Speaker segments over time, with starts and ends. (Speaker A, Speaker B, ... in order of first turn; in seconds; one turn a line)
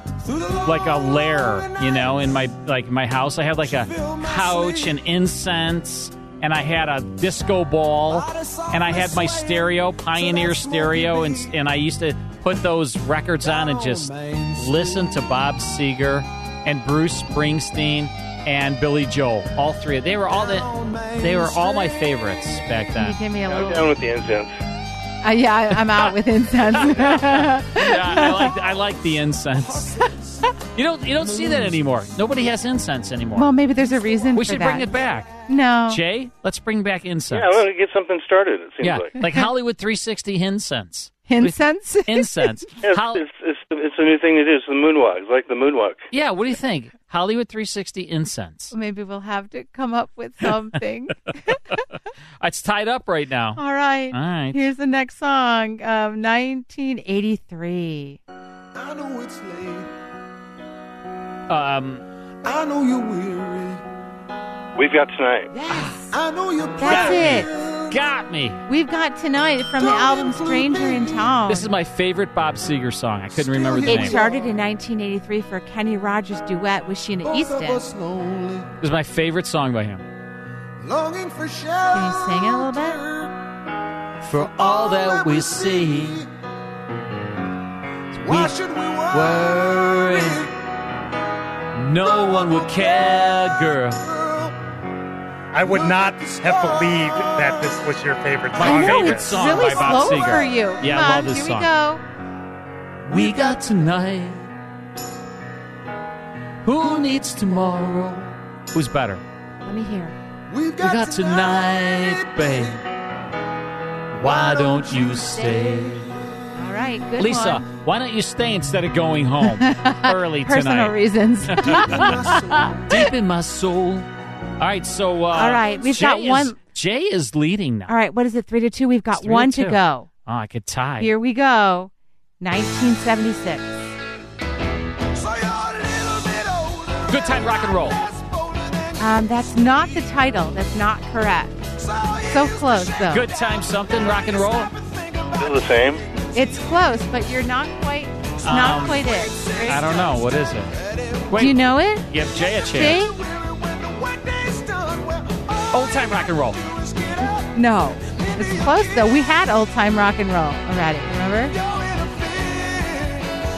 Speaker A: 0.2-2.2
Speaker B: 0.6-23.2
Speaker A: 3.6-5.0
Speaker A: 8.1-11.6
Speaker A: 13.4-15.1
Speaker A: 20.3-21.9
Speaker C: 23.0-23.9
Speaker D: 23.5-24.5
Speaker C: 25.2-28.5
Speaker B: 26.7-30.1
Speaker A: 29.6-30.5
Speaker B: 30.8-33.5
Speaker A: 31.2-31.8
Speaker C: 33.4-34.9
Speaker B: 34.4-35.3
Speaker C: 35.5-36.0
Speaker B: 35.9-37.6
Speaker D: 37.3-39.1
Speaker B: 38.8-43.2
Speaker C: 41.3-42.5
Speaker D: 42.8-46.0
Speaker B: 46.1-48.7
Speaker C: 48.7-51.8
Speaker B: 52.4-53.6
Speaker C: 53.6-58.2
Speaker B: 54.1-54.6
Speaker A: 58.8-59.9
Speaker B: 61.5-62.0
Speaker A: 62.4-63.8
Speaker D: 64.8-65.5
Speaker B: 65.7-66.1
Speaker A: 65.7-68.0
Speaker C: 66.8-67.5
Speaker B: 66.8-68.6
Speaker C: 68.7-71.7
Speaker A: 69.7-71.3
Speaker B: 71.5-74.2
Speaker A: 73.3-74.5
Speaker C: 73.9-77.8
Speaker A: 77.2-78.7
Speaker B: 78.8-80.0
Speaker A: 80.8-83.3
Speaker C: 81.9-83.0
Speaker B: 84.2-86.2
Speaker A: 84.3-86.3
Speaker B: 88.1-88.5
Speaker A: 88.2-90.5
Speaker B: 89.1-90.5
Speaker B: 91.8-94.0
Speaker A: 92.0-94.6
Speaker E: 95.5-99.4
Speaker A: 95.7-97.8
Speaker B: 98.5-101.7
Speaker C: 98.6-102.0
Speaker A: 99.5-100.4
Speaker B: 103.1-104.5
Speaker A: 103.1-103.7
Speaker B: 106.6-109.2
Speaker C: 109.6-110.2
Speaker A: 110.5-112.8
Speaker B: 110.8-112.8
Speaker B: 114.1-116.2
Speaker A: 114.2-116.0
Speaker C: 116.6-117.7
Speaker B: 117.2-121.0
Speaker C: 119.4-122.4
Speaker B: 121.5-122.2
Speaker A: 121.7-122.8
Speaker B: 122.9-124.1
Speaker B: 124.6-127.9
Speaker C: 125.3-126.6
Speaker C: 127.9-130.1
Speaker B: 129.2-131.1
Speaker C: 131.0-133.8
Speaker A: 135.1-140.1
Speaker B: 137.1-138.0
Speaker C: 139.0-141.6
Speaker A: 141.8-145.9
Speaker C: 142.3-143.2
Speaker B: 143.1-144.7
Speaker D: 145.3-146.0
Speaker C: 146.3-149.8
Speaker A: 148.4-151.5
Speaker B: 148.4-149.1
Speaker B: 149.7-150.7
Speaker B: 151.3-153.1
Speaker C: 151.4-152.1
Speaker A: 152.2-159.2
Speaker C: 152.7-153.1
Speaker B: 155.7-156.6
Speaker C: 157.5-161.6
Speaker A: 161.5-163.3